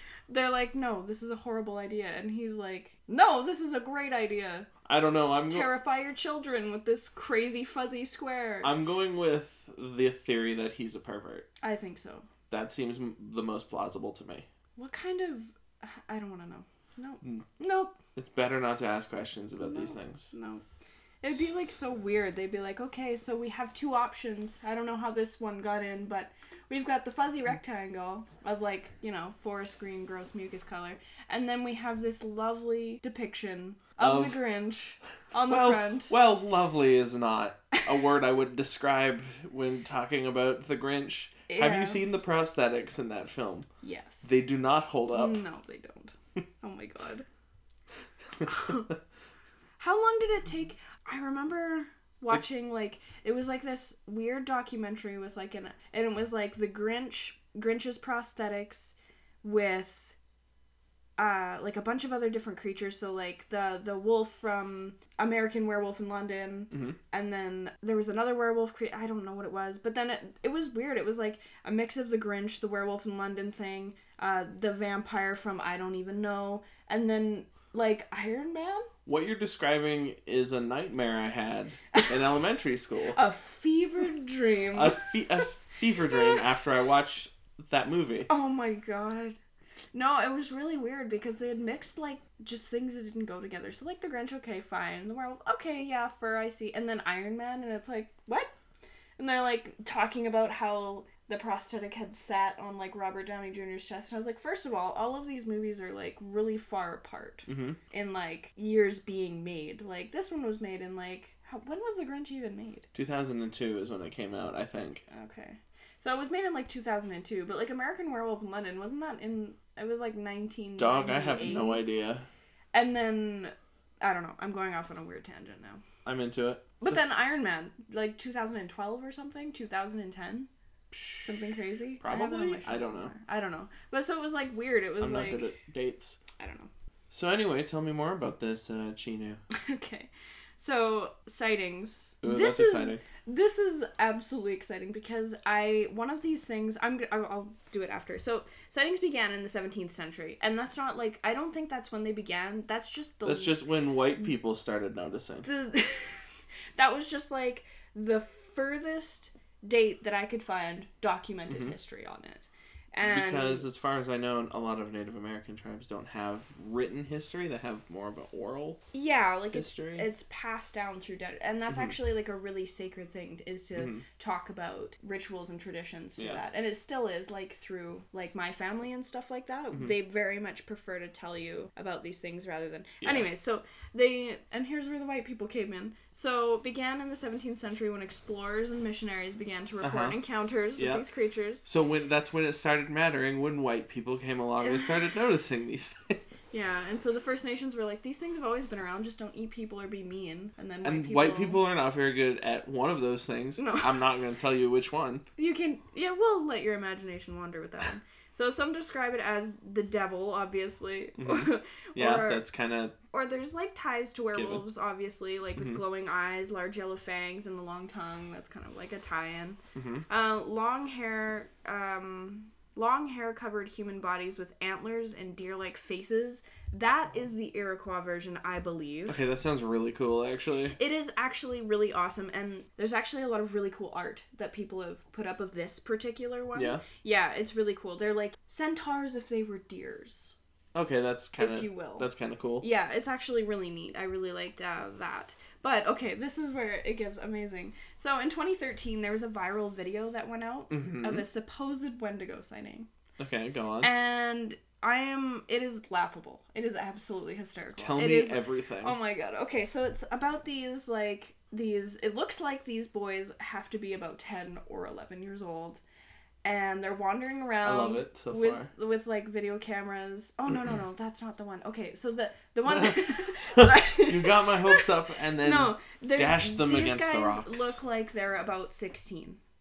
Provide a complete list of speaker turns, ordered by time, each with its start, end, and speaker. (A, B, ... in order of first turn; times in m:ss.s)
0:00.3-0:04.7 A
0:04.9-0:05.7 B
0:05.5-0:08.7 A
0:08.6-0:11.5 B
0:11.6-0:12.3 A
0:12.5-0:14.5 B
0:14.8-0:18.0 A
0:18.2-0:20.3 B
0:19.6-0:20.6 A
0:21.2-0:36.2 A
0:34.0-0:34.4 B
0:35.5-0:43.7 B
0:41.5-0:42.0 A
0:43.8-0:44.4 A
0:44.2-0:45.4 B
0:45.1-0:47.3 A
0:48.4-0:48.9 A
0:49.8-1:00.2 A
1:01.2-1:18.9 A
1:06.7-1:07.0 B
1:19.1-1:23.2 B
1:23.1-1:25.5 A
1:24.7-1:28.3 B
1:26.0-1:26.4 A
1:28.3-1:29.4 A
1:29.9-1:38.5 A
1:39.2-1:52.9 A
1:47.5-1:47.8 B
1:52.9-1:55.0 B
1:55.1-2:02.0 A
2:00.8-2:02.3 B
2:02.7-2:05.8 A
2:06.0-2:07.0 B
2:06.8-2:10.5 A
2:10.9-2:13.1 B
2:11.2-2:15.5 A
2:15.0-2:16.2 B
2:16.4-2:16.7 A
2:17.1-2:19.4 B
2:19.5-2:33.6 A
2:22.2-2:23.0 B
2:33.2-2:35.5 B
2:35.4-2:43.7 A
2:41.5-2:41.8 B
2:43.0-2:48.8 B
2:48.9-3:11.7 A
2:49.5-2:50.1 B
2:51.7-2:52.0 B
2:53.8-2:54.0 B
3:03.0-3:03.3 B
3:09.8-3:10.2 B
3:10.8-3:11.0 B
3:11.6-3:16.2 B
3:14.6-3:14.9 A
3:16.5-3:21.6 A
3:20.8-3:25.2 B
3:23.6-3:24.1 A
3:25.4-3:32.4 A
3:31.2-3:33.0 B
3:33.1-3:49.2 A
3:34.3-3:34.6 B
3:35.6-3:35.8 B
3:39.8-3:40.1 B
3:49.1-3:50.8 B
3:50.8-4:00.3 A
3:56.6-3:56.8 B
4:00.7-4:02.7 B
4:01.4-4:12.9 A
4:10.7-4:11.2 B
4:13.2-4:13.9 B
4:13.8-4:25.8 A
4:17.8-4:19.0 B
4:26.4-4:39.4 A
4:27.6-4:28.7 B
4:32.7-4:37.8 B